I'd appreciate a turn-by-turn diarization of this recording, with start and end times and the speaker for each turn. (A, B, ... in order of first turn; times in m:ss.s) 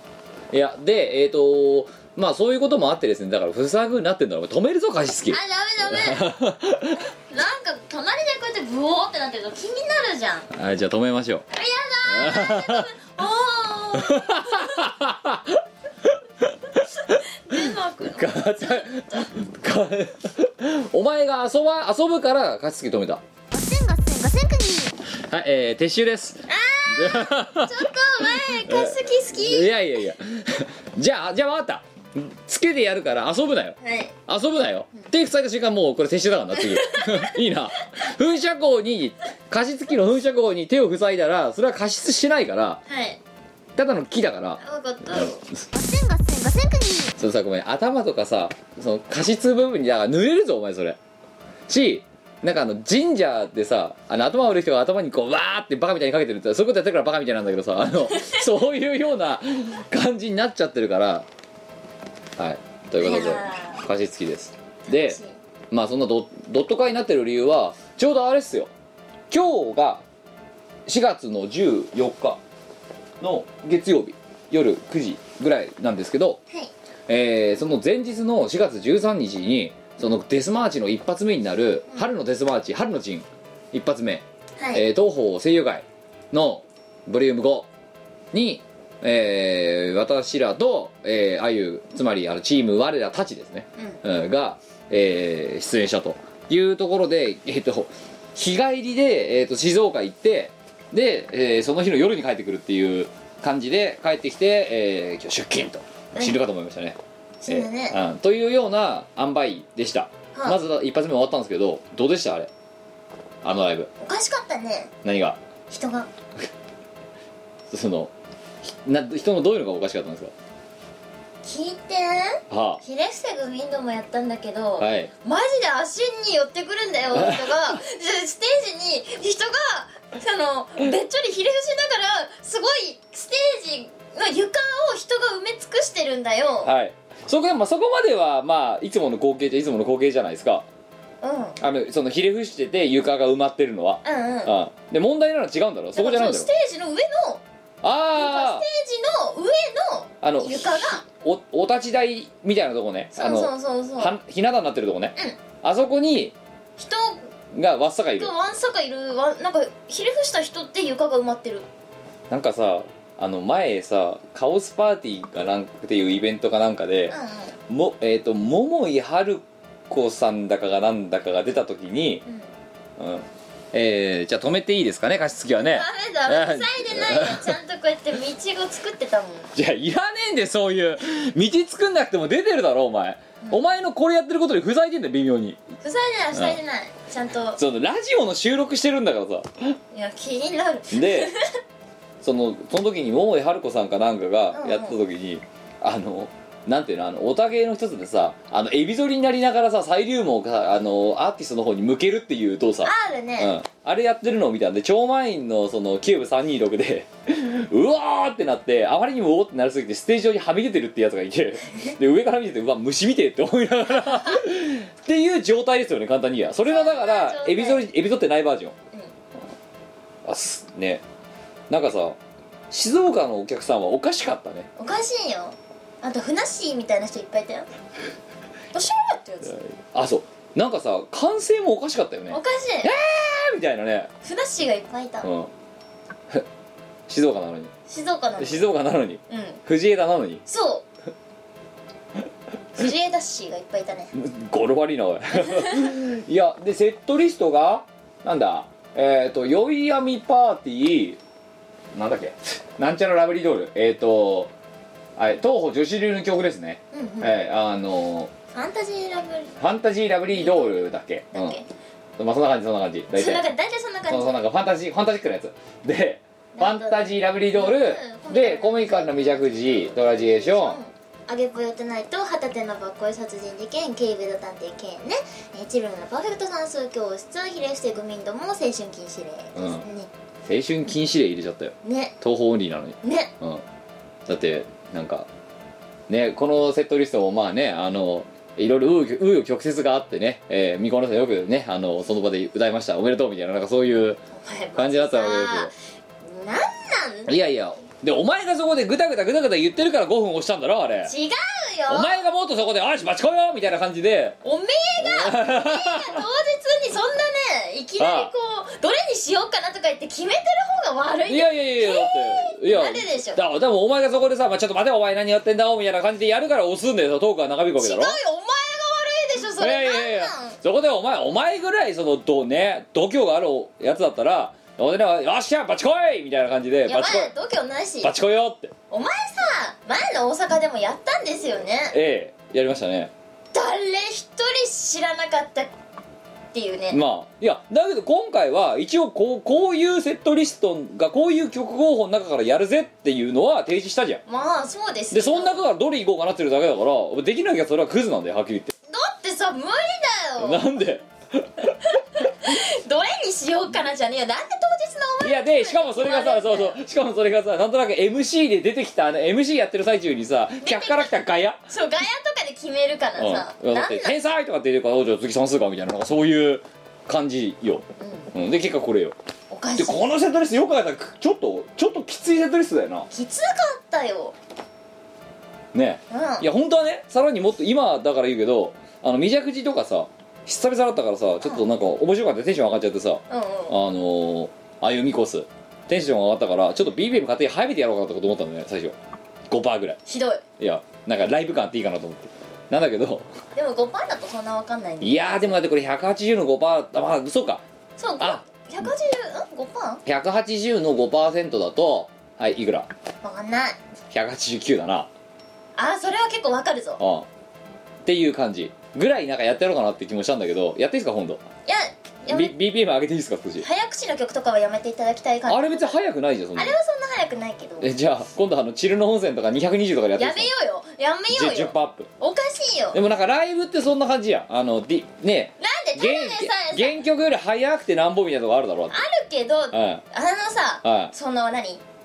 0:00.5-0:07.0 A
0:05.3-0:06.3 B
0:06.9-0:10.5 B
0:10.5-0:11.4 A
0:11.5-0:14.9 B
0:12.1-0:12.9 A
0:14.0-0:16.8 A
0:16.8-0:19.3 B
0:18.1-0:23.2 A
0:23.5-0:25.0 C
0:25.1-0:27.9 A
0:26.5-0:29.7 B
0:28.5-0:42.8 A
0:33.8-0:34.2 B
0:36.8-0:37.3 B
0:42.9-0:43.2 B
0:43.8-0:45.3 A
0:44.6-0:45.4 B
0:45.7-0:47.2 C
0:47.2-0:51.0 A
0:51.7-1:01.3 A
1:02.4-1:05.2 A
1:03.0-1:03.8 B
1:04.9-1:05.4 B
1:05.7-1:08.7 A
1:09.3-1:10.0 A
1:10.9-1:12.4 A
1:13.2-1:16.4 A
1:17.1-1:27.7 A
1:24.6-1:24.9 B
1:28.3-1:52.5 A
1:47.4-1:48.0 B
1:50.3-1:50.6 B
1:53.4-1:53.9 A
1:54.0-1:54.9 B
1:55.0-1:55.4 A
1:55.7-1:56.1 B
1:57.7-2:00.3 A
2:01.4-2:16.7 B
2:02.5-2:02.8 A
2:04.8-2:05.1 A
2:07.1-2:07.5 A
2:16.6-2:20.6 A
2:21.2-2:21.6 B
2:21.6-2:26.5 A
2:24.0-2:24.6 B
2:26.0-2:27.4 B
2:27.8-2:28.7 A
2:28.1-2:31.0 B
2:30.2-2:36.4 A
2:33.2-2:34.2 B
2:36.8-2:37.3 B
2:37.5-2:38.3 A
2:38.2-2:41.7 B
2:42.3-2:47.1 A
2:47.1-2:47.6 B
2:47.7-2:52.2 A
2:53.0-2:57.6 A
2:55.6-2:59.5 B
2:59.6-3:05.6 A
3:05.8-3:07.6 B
3:06.3-3:06.6 A
3:07.6-3:09.8 A
3:09.9-3:11.4 B
3:10.9-3:11.3 A
3:12.2-3:38.8 A
3:14.5-3:15.0 B
3:22.8-3:23.6 B
3:36.6-3:37.9 B
3:40.2-3:41.0 A
3:41.7-3:42.2 A
3:42.7-3:44.7 A
3:44.8-3:47.7 B
3:48.7-3:49.6 B
3:49.4-3:54.1 A
3:52.3-3:53.0 B
3:54.2-3:55.3 B
3:55.2-3:55.5 A
3:57.1-3:57.7 A
3:57.9-3:58.7 B
3:58.4-4:00.4 A
3:59.3-3:59.6 B
4:00.5-4:00.9 B
4:02.8-4:04.1 B
4:04.2-4:11.2 A
4:05.5-4:05.8 B
4:11.9-4:14.5 A
4:15.2-4:18.3 A
4:16.9-4:17.4 B
4:18.5-4:19.6 B
4:19.6-4:21.6 A
4:20.3-4:21.7 B
4:22.2-4:23.4 A
4:23.2-4:24.4 B
4:24.1-4:30.8 A
4:26.6-4:40.1 B
4:39.6-4:39.8 A
4:40.4-4:43.6 A
4:41.8-4:42.1 B
4:43.0-4:43.3 B
4:44.3-4:45.3 A
4:46.1-4:54.2 A
4:54.3-4:55.7 B
4:54.8-4:55.7 A
4:56.2-4:57.4 B
4:57.3-5:01.1 A
5:01.0-5:02.2 B
5:01.9-5:04.4 A
5:04.4-5:13.4 B
5:05.0-5:06.2 A
5:08.0-5:08.3 A
5:11.3-5:18.2 A
5:17.8-5:20.6 B
5:19.6-5:27.3 A
5:26.9-5:28.1 B
5:28.0-5:28.7 A
5:28.9-5:32.0 B
5:31.9-5:33.1 A
5:33.5-5:35.7 B
5:36.5-5:37.0 B
5:36.9-5:44.2 A
5:44.3-5:45.6 B
5:45.1-5:48.7 A
5:48.9-5:50.7 B
5:50.4-5:51.8 A
5:51.9-5:56.8 B
5:55.2-6:01.6 A
6:00.6-6:01.1 B
6:01.7-6:04.2 B
6:03.2-6:09.2 A
6:08.0-6:08.3 B
6:09.5-6:10.1 B
6:09.8-6:13.1 A
6:13.1-6:14.4 B
6:15.7-6:29.0 A
6:16.1-6:16.5 B
6:23.3-6:23.8 B
6:29.5-6:30.0 A
6:30.1-6:30.4 B
6:30.6-6:33.3 A
6:33.6-6:35.6 B
6:35.0-6:37.6 A
6:38.0-6:40.0 B
6:40.0-6:42.9 A
6:43.2-6:43.8 B
6:44.1-6:45.1 A
6:45.8-6:47.0 B
6:47.0-6:47.3 A
6:48.0-6:51.4 A
6:51.7-6:52.6 B
6:52.3-6:53.7 A
6:53.6-6:56.0 B
6:55.5-6:56.8 A
6:56.6-6:57.9 B
6:57.8-7:00.5 A
7:00.2-7:03.0 B
7:01.3-7:02.1 A
7:02.9-7:09.0 A
7:05.6-7:07.0 B
7:08.9-7:11.8 B
7:09.7-7:10.0 A
7:10.8-7:11.1 A